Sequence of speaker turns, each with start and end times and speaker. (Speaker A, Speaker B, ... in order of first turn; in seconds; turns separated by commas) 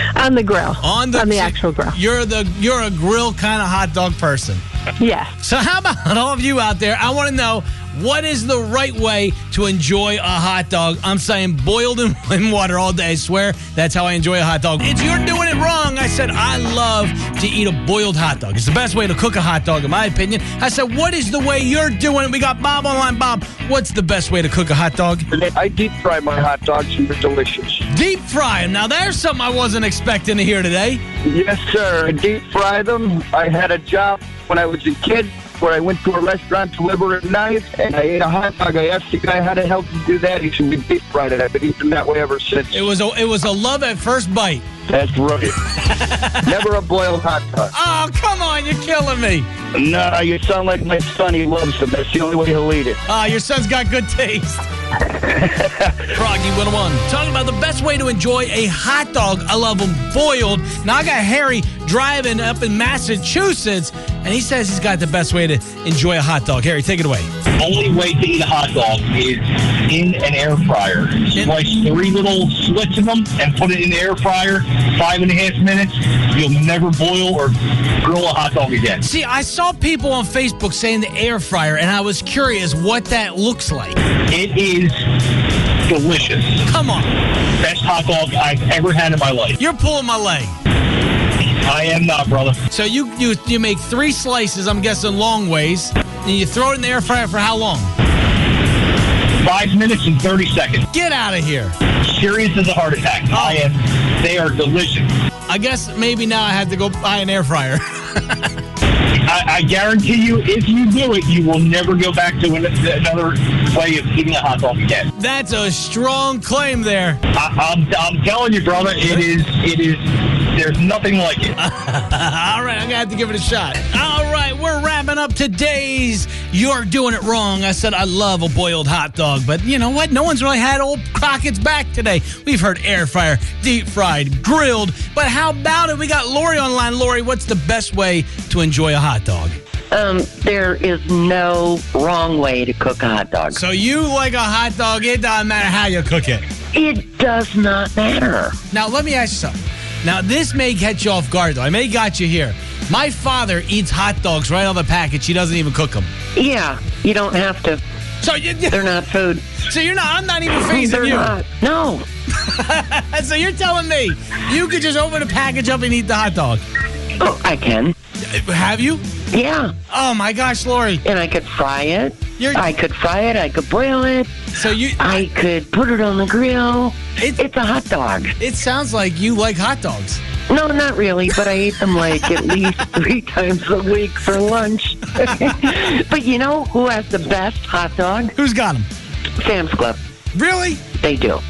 Speaker A: 0.1-2.0, Speaker B: 0.8-4.6, Speaker A: 5.0-5.3, Speaker B: 5.4-25.3, Speaker C: 25.3-27.8, Speaker B: 27.9-31.0, Speaker C: 31.2-42.8, Speaker B: 42.7-44.7, Speaker C: 44.9-45.5, Speaker B: 45.8-46.6, Speaker C: 46.5-47.7, Speaker B: 47.7-49.5, Speaker C: 49.7-53.0, Speaker B: 53.1-54.7, Speaker B: 56.0-67.3, Speaker D: 67.6-79.0, Speaker B: 79.0-84.0, Speaker D: 84.3-85.1, Speaker D: 85.9-86.6, Speaker B: 86.7-87.1, Speaker D: 87.6-89.6, Speaker B: 89.6-90.5, Speaker D: 91.6-92.6, Speaker B: 92.7-97.9, Speaker D: 99.4-100.8, Speaker B: 100.9-101.8, Speaker D: 102.0-105.1, Speaker B: 103.3-103.6, Speaker B: 105.5-108.5, Speaker D: 109.2-115.1, Speaker B: 115.2-117.2, Speaker D: 117.3-121.6, Speaker B: 121.6-139.6, Speaker E: 139.9-143.6, Speaker B: 143.6-146.4, Speaker E: 146.7-148.6, Speaker B: 148.7-156.1, Speaker E: 156.3-157.8, Speaker B: 158.2-159.0, Speaker E: 158.7-159.4, Speaker B: 159.6-161.3, Speaker E: 160.6-162.1, Speaker B: 162.4-166.6, Speaker E: 167.2-167.9, Speaker B: 168.3-169.0, Speaker E: 169.3-169.7, Speaker B: 169.9-171.0, Speaker E: 171.0-174.3, Speaker B: 172.4-172.7, Speaker B: 174.6-175.2, Speaker E: 175.0-178.3, Speaker B: 178.4-180.2, Speaker E: 180.5-188.3, Speaker B: 188.4-188.9, Speaker E: 189.4-190.0, Speaker B: 190.3-190.8, Speaker E: 191.0-191.4